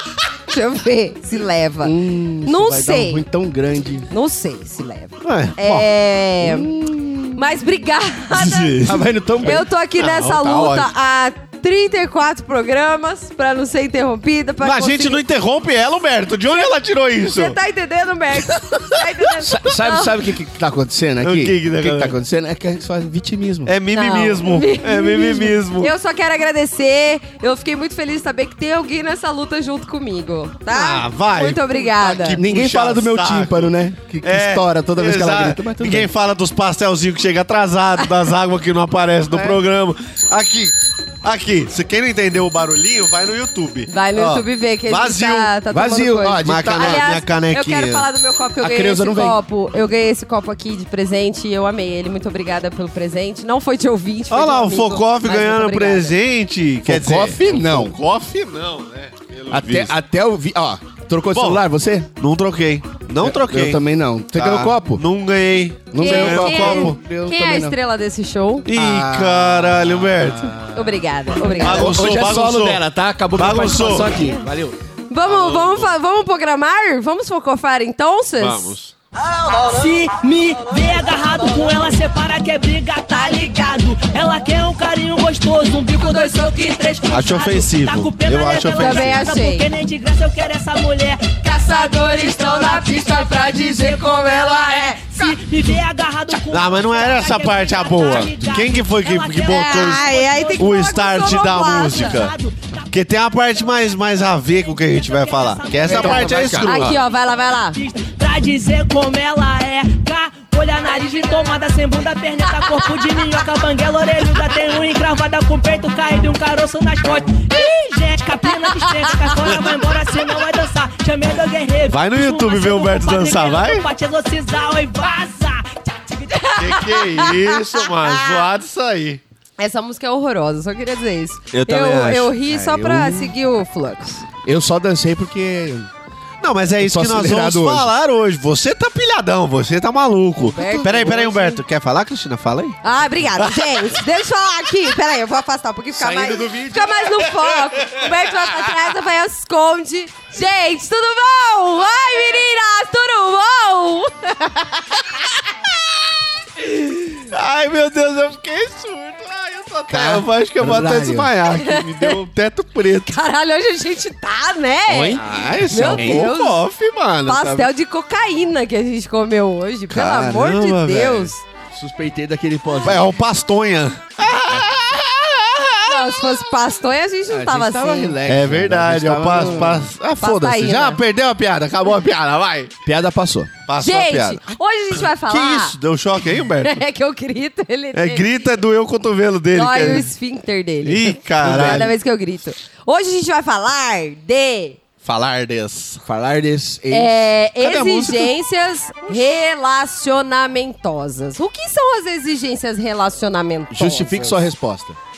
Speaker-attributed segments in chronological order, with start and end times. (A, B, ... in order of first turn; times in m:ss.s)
0:00.5-0:03.2 A
0:01.8-0:04.1 B
0:04.1-0:06.7 A
0:05.2-0:05.9 C
0:06.4-0:07.4 B
0:07.3-0:08.8 A
0:08.3-0:09.1 C
0:08.8-0:09.7 B
0:09.4-0:15.2 A
0:10.0-0:10.9 C
0:14.6-0:17.6 C
0:17.3-0:20.3 A
0:19.3-0:23.8 B
0:21.2-0:22.1 C
0:23.6-0:25.9 C
0:23.9-0:32.4 A
0:30.7-0:45.5 C
0:31.8-0:36.1 B
0:39.3-0:39.6 B
0:43.9-0:56.1 A
0:45.7-0:47.1 B
0:46.4-0:48.0 C
0:48.6-0:49.4 B
0:54.3-1:00.0 C
0:56.8-0:58.0 B
0:59.5-1:02.1 B
1:01.3-1:01.6 C
1:02.2-1:07.0 C
1:03.2-1:05.0 B
1:05.9-1:07.8 B
1:06.0-1:08.7 A
1:08.7-1:10.6 C
1:08.7-1:14.8 B
1:10.7-1:12.2 A
1:11.6-1:14.2 C
1:15.1-1:18.8 A
1:15.2-1:15.9 C
1:18.4-1:18.9 C
1:19.5-1:42.7 D
1:27.1-1:29.3 C
1:28.7-1:29.6 A
1:31.4-1:35.0 A
1:32.2-1:35.3 B
1:36.5-1:42.3 C
1:39.5-1:42.2 A
1:42.9-1:47.0 C
1:44.6-1:46.6 D
1:45.8-1:47.0 B
1:46.6-1:47.8 A
1:47.7-2:06.5 D
1:59.0-1:59.3 A
2:01.9-2:03.8 C
2:06.4-2:08.4 A
2:06.6-2:09.2 C
2:09.6-2:14.2 A
2:11.5-2:12.8 C
2:12.5-2:13.2 B
2:14.4-2:15.9 B
2:16.4-2:22.8 C
2:16.8-2:17.9 B
2:20.4-2:21.6 A
2:20.6-2:21.0 B
2:22.8-2:35.1 A
2:23.4-2:23.9 C
2:25.9-2:27.2 B
2:27.8-2:28.1 C
2:37.2-2:43.1 C
2:39.9-2:41.3 B
2:41.5-2:42.2 A
2:43.0-2:46.6 A
2:44.9-2:46.3 B
2:45.1-2:47.7 C
2:47.2-2:51.4 A
2:49.9-2:51.3 C
2:51.7-2:53.2 B
2:52.8-2:56.4 C
2:55.8-2:58.2 A
2:57.3-2:59.9 B
2:58.2-3:02.7 C
2:59.3-3:01.0 A
3:02.8-3:03.5 B
3:03.7-3:04.4 C
3:03.8-3:05.8 A
3:05.1-3:06.8 C
3:06.6-3:08.4 A
3:07.9-3:10.1 C
3:09.5-3:14.8 A
3:10.8-3:11.9 C
3:11.4-3:11.9 B
3:15.0-3:16.0 C
3:16.0-3:17.3 B
3:16.9-3:24.4 A
3:17.6-3:18.3 C
3:23.7-3:25.0 B